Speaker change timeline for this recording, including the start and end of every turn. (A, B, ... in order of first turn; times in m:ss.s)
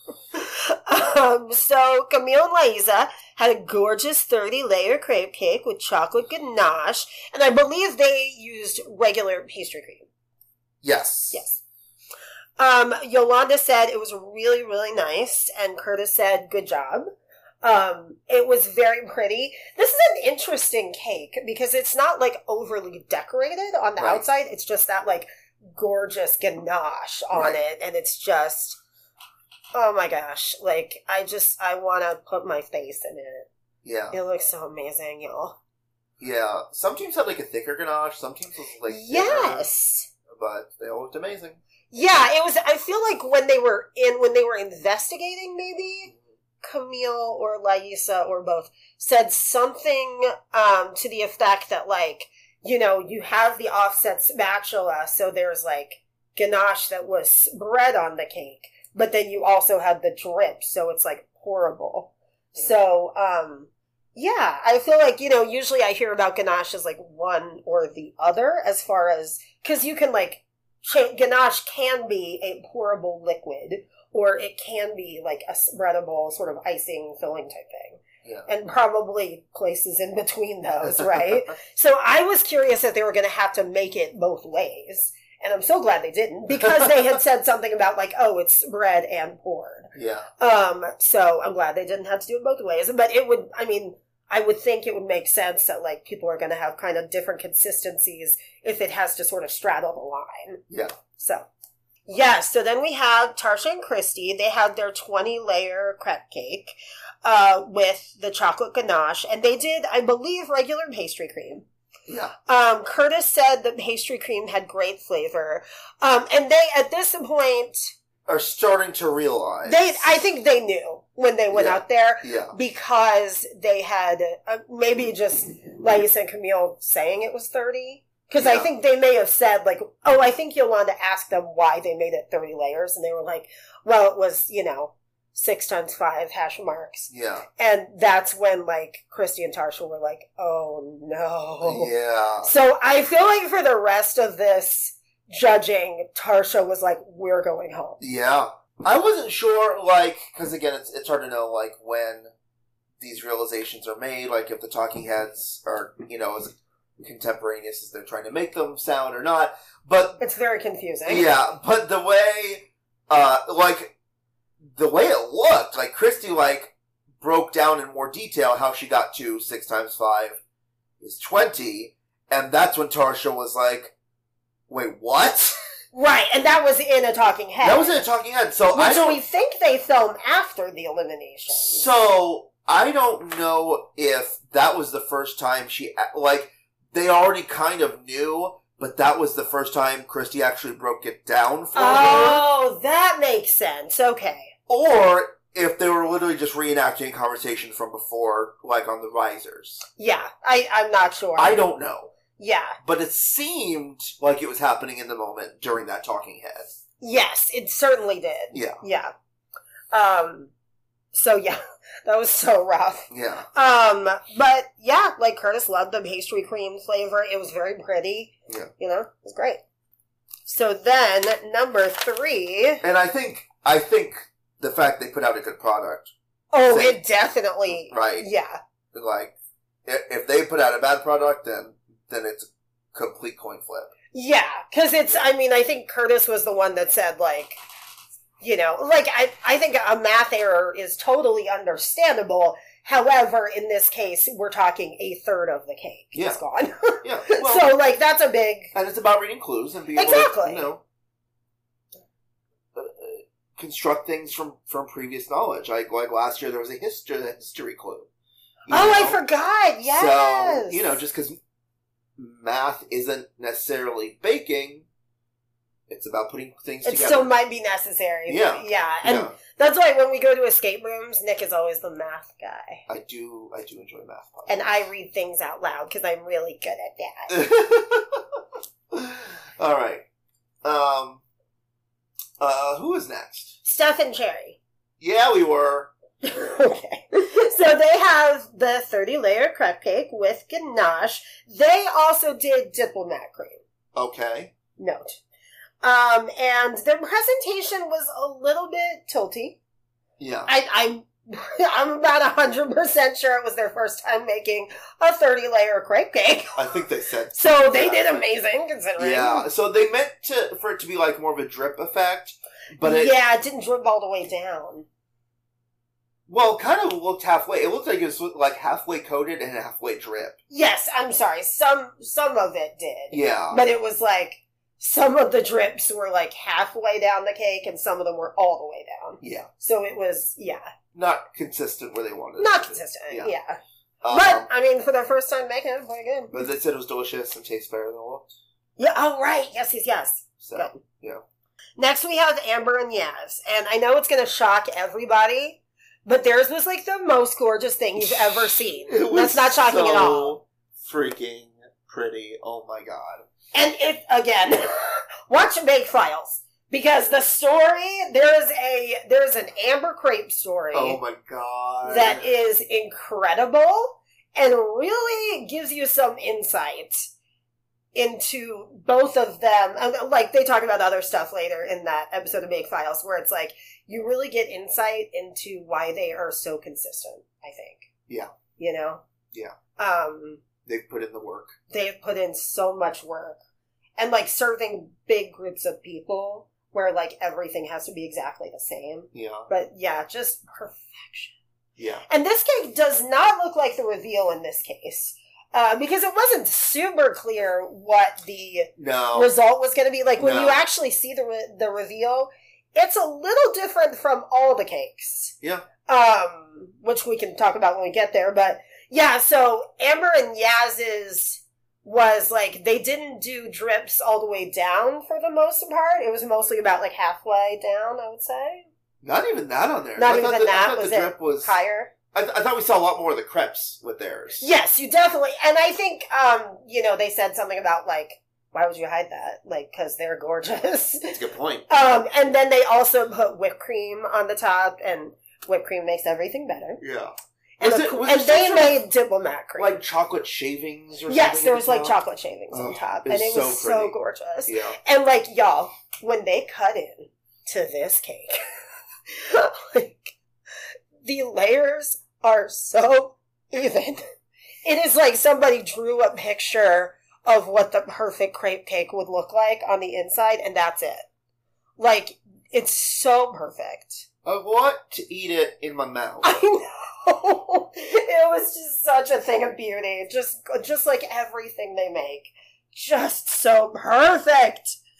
0:00.3-0:10.1 A
0:10.8-0:11.4 B
0:11.3-0:11.6 A
0:12.6-0:17.1 A
0:17.6-0:28.8 A
0:24.0-0:24.2 B
0:27.3-0:27.6 B
0:29.7-0:33.5 A
0:33.8-0:34.2 B
0:34.1-0:35.6 A
0:36.2-0:39.7 B
0:38.9-0:40.1 A
0:40.3-0:41.6 B
0:41.9-0:46.1 A
0:46.6-1:40.6 A
1:20.9-1:21.3 B
1:26.6-1:26.9 B
1:29.9-1:30.3 B
1:41.2-1:41.5 A
1:42.1-1:51.7 A
1:52.1-1:52.3 B
1:52.5-1:57.9 A
1:58.3-2:00.1 B
1:59.6-2:21.9 A
2:01.5-2:02.6 B
2:08.4-2:08.7 B
2:17.1-2:17.5 B
2:21.6-2:22.5 B
2:22.4-2:28.0 A
2:28.0-2:32.3 B
2:33.0-2:40.2 B
2:40.2-2:41.3 A
2:41.1-2:43.9 B
2:44.8-2:50.4 B
2:51.0-2:53.9 B
2:54.7-2:55.6 B
2:55.9-2:58.0 A
2:57.6-2:59.2 B
2:58.7-3:01.9 A
3:01.5-3:12.4 B
3:11.8-3:14.5 A
3:14.7-3:19.8 B
3:20.0-3:21.6 A
3:21.4-3:22.1 B
3:22.4-3:22.8 A
3:22.8-3:26.7 B
3:27.0-3:29.1 A
3:28.5-3:28.8 B
3:29.9-3:30.5 A
3:31.1-3:39.6 A
3:33.1-3:33.5 B
3:40.4-3:42.8 A
3:42.8-3:46.1 B
3:46.5-3:48.6 A
3:46.7-3:47.0 B
3:47.9-3:48.3 B
3:48.9-3:49.3 B
3:49.9-3:53.9 B
3:54.1-3:57.6 A
3:58.4-4:08.7 A
4:06.2-4:06.4 B
4:07.0-4:07.7 B
4:08.7-4:10.8 B
4:10.0-4:10.7 A
4:12.8-4:18.1 B
4:18.7-4:19.2 B
4:18.7-4:21.0 A
4:19.9-4:21.4 B
4:22.2-4:24.9 B
4:25.9-4:27.3 B
4:26.8-4:32.8 A
4:28.3-4:29.4 B
4:32.9-4:34.8 B
4:34.5-4:37.3 A
4:37.3-4:38.4 B
4:38.9-4:40.0 B
4:40.6-4:41.2 B
4:42.4-4:43.6 B
4:43.6-4:44.6 A
4:45.0-4:45.9 B
4:46.2-4:53.6 A
4:54.0-4:54.5 B
4:54.8-4:55.2 A
4:55.8-4:59.6 A
5:00.2-5:00.5 B
5:00.5-5:06.8 A
5:06.6-5:08.1 B
5:07.4-5:09.5 A
5:09.0-5:13.1 B
5:12.8-5:14.9 A
5:16.3-5:20.4 B
5:20.5-5:30.7 A
5:23.1-5:23.6 B
5:29.2-5:29.5 B
5:30.9-5:33.3 B
5:32.4-5:33.6 A
5:34.0-5:34.5 B
5:34.1-5:36.4 A
5:36.3-5:38.3 B
5:38.8-5:40.8 A
5:40.4-5:41.2 B
5:41.8-5:50.4 A
5:48.0-5:53.3 B
5:53.5-6:01.0 A
6:00.7-6:02.2 B
6:01.9-6:07.1 A
6:07.9-6:17.9 A
6:18.6-6:19.0 A
6:19.8-6:20.4 A
6:20.6-6:21.6 B
6:21.7-6:23.4 A
6:24.0-6:31.4 A
6:29.1-6:29.5 B
6:31.8-6:32.0 B
6:32.1-6:58.7 A
6:38.8-6:39.3 B
6:40.2-6:40.6 B
6:45.4-6:45.7 B
6:59.0-7:01.6 B
7:00.0-7:01.9 A
7:02.1-7:04.5 B
7:04.4-7:11.2 A
7:11.1-7:11.7 B
7:11.7-7:16.8 A
7:16.8-7:18.8 B
7:17.6-7:19.8 A
7:19.6-7:22.0 B
7:21.1-7:28.4 A
7:22.5-7:24.0 B
7:24.5-7:24.8 B
7:29.1-7:30.2 A
7:31.0-7:34.0 A
7:34.6-7:41.1 A
7:41.8-7:44.0 A
7:44.2-7:46.3 B
7:46.2-7:54.8 A